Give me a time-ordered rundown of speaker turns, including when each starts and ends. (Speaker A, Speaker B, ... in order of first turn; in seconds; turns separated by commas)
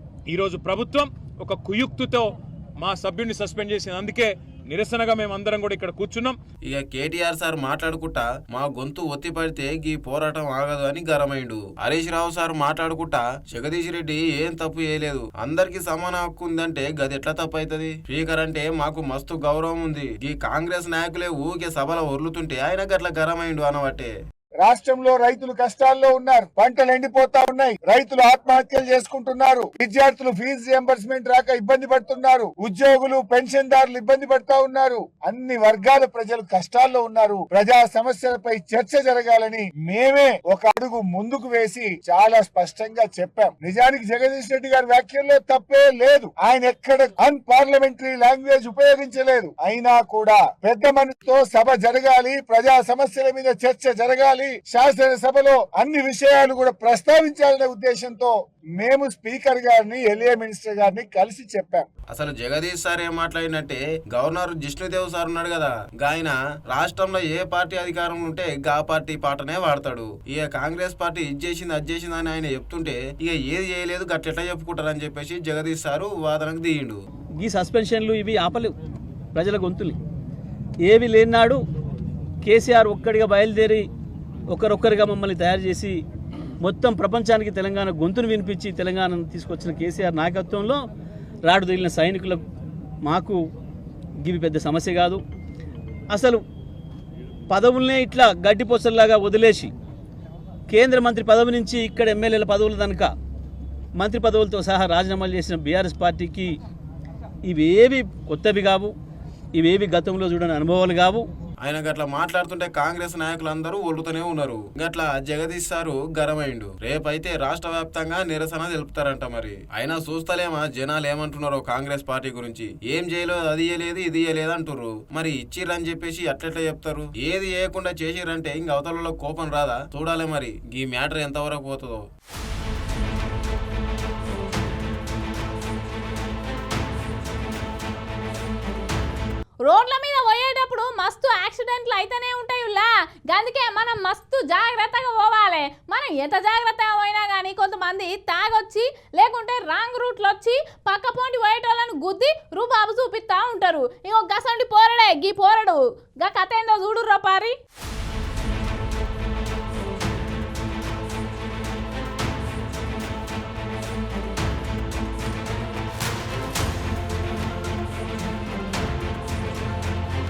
Speaker A: 0.3-6.4, Speaker B: 6.7-24.1, Speaker C: 24.6-61.9, Speaker B: 62.1-77.0, Speaker D: 77.4-78.7, Speaker D: 79.3-80.0, Speaker D: 80.9-81.6, Speaker D: 82.4-83.8, Speaker D: 84.5-86.0, Speaker D: 86.6-90.8, Speaker D: 91.5-92.4, Speaker D: 93.0-93.4, Speaker D: 94.2-95.2, Speaker D: 96.1-96.4, Speaker D: 97.5-99.7, Speaker D: 100.7-103.1, Speaker D: 104.0-106.5, Speaker D: 107.5-108.9, Speaker D: 109.6-111.2, Speaker B: 111.6-132.1, Speaker E: 139.7-157.6